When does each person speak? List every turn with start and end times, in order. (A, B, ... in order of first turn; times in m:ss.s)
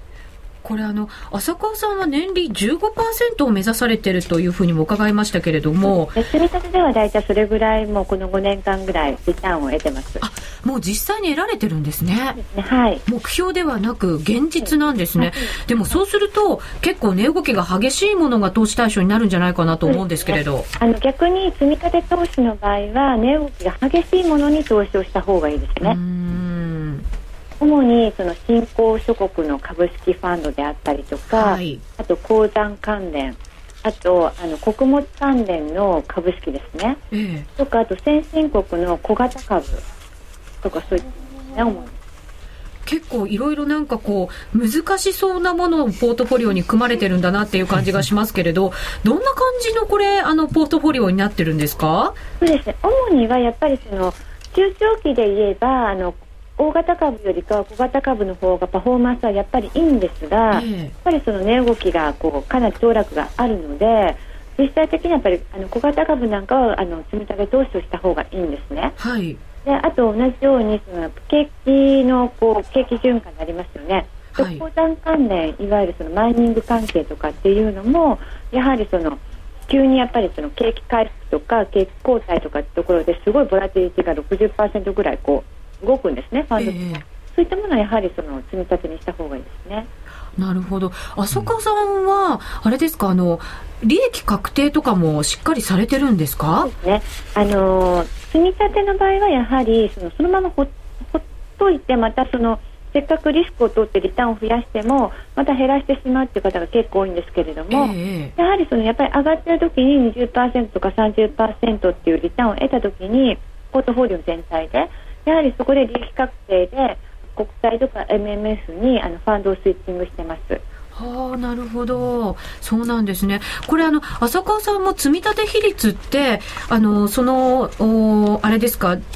0:00.6-0:06.2 A
0:06.2-0:10.2 B
0:10.2-0:12.4 A
0:12.4-0:13.0 B
0:13.1-0:20.7 A
0:14.6-0:16.0 B
0:19.8-0:26.0 B
0:25.8-0:27.0 A
0:27.6-0:37.0 B
0:31.3-0:31.8 A
0:37.1-0:37.5 A
0:37.6-0:39.8 B
0:40.6-0:41.9 B
0:42.9-0:52.2 A
0:52.4-1:09.0 B
1:00.5-1:00.9 A
1:09.0-1:09.4 A
1:09.6-1:29.9 B
1:14.4-1:14.6 A
1:26.6-1:27.0 A
1:30.4-1:36.7 A
1:36.6-2:00.6 B
1:47.7-1:48.3 A
2:01.0-2:09.0 A